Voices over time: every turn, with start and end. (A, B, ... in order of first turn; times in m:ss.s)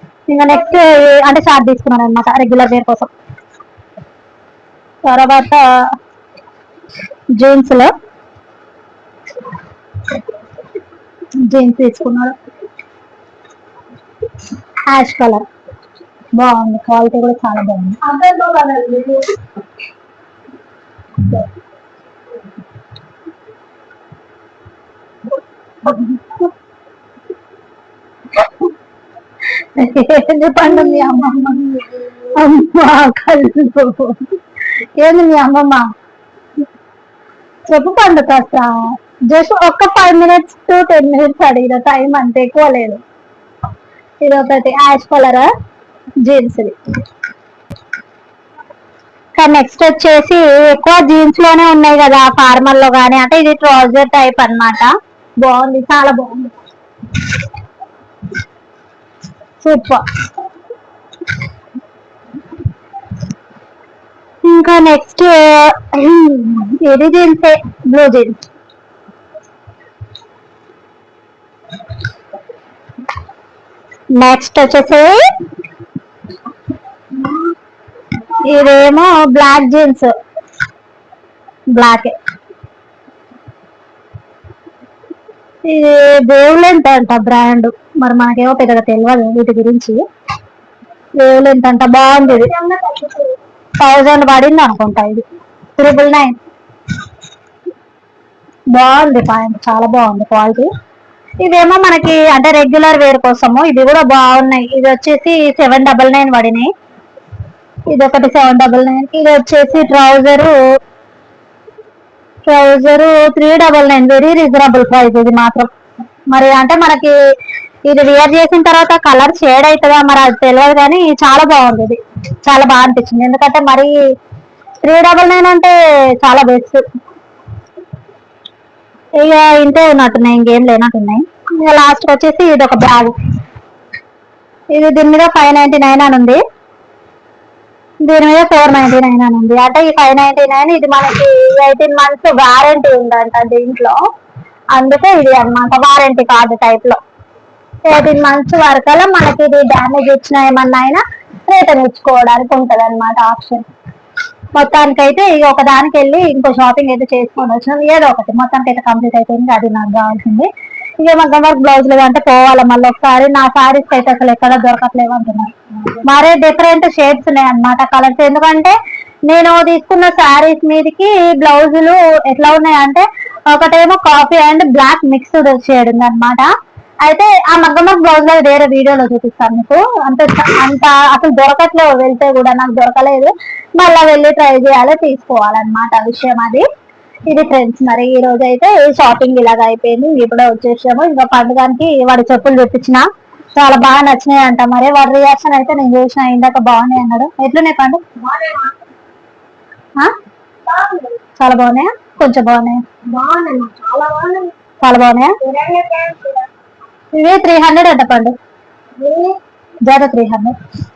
0:00.3-0:03.1 A
0:05.0-0:05.8 A
0:07.4-0:07.9 A
0:11.4-0:12.3 A
0:14.9-0:15.4 A
0:16.4-0:18.2 A
0:18.2-0:19.3 B
0:29.8-0:35.9 A
0:37.7-0:43.0 A
0:44.2-0:45.5 A
0:46.2-0:46.8 A
0:49.4-0:56.5 A
0:59.6-1:00.0 A
1:04.4-1:08.4 A
1:14.1-1:15.2 A
1:18.3-1:20.1 A
1:21.7-1:22.2 A
1:25.7-1:30.0 A
1:31.2-1:32.6 A
1:32.5-1:33.3 B
1:33.8-1:35.2 A
1:35.8-1:36.3 A
1:38.7-1:40.7 A
1:41.4-1:46.7 A
1:47.9-1:50.6 A
1:52.5-1:55.7 A
1:56.3-1:57.2 A
1:57.8-2:04.0 A
2:04.8-2:06.8 A
2:09.2-2:13.1 A
2:14.7-2:16.4 A
2:18.0-2:24.0 A
2:24.7-2:27.0 A
2:27.9-2:33.7 A
2:34.5-2:48.8 A
2:49.3-2:56.5 A
2:57.0-3:06.6 A
3:07.3-3:13.0 A
3:13.6-3:18.0 A
3:18.2-3:18.8 B
3:20.7-3:21.1 B
3:21.4-3:22.8 A
3:23.1-3:24.5 B
3:24.8-3:25.4 A
3:25.4-3:26.5 B
3:27.1-3:28.4 A
3:29.0-3:29.4 B
3:29.8-3:30.6 A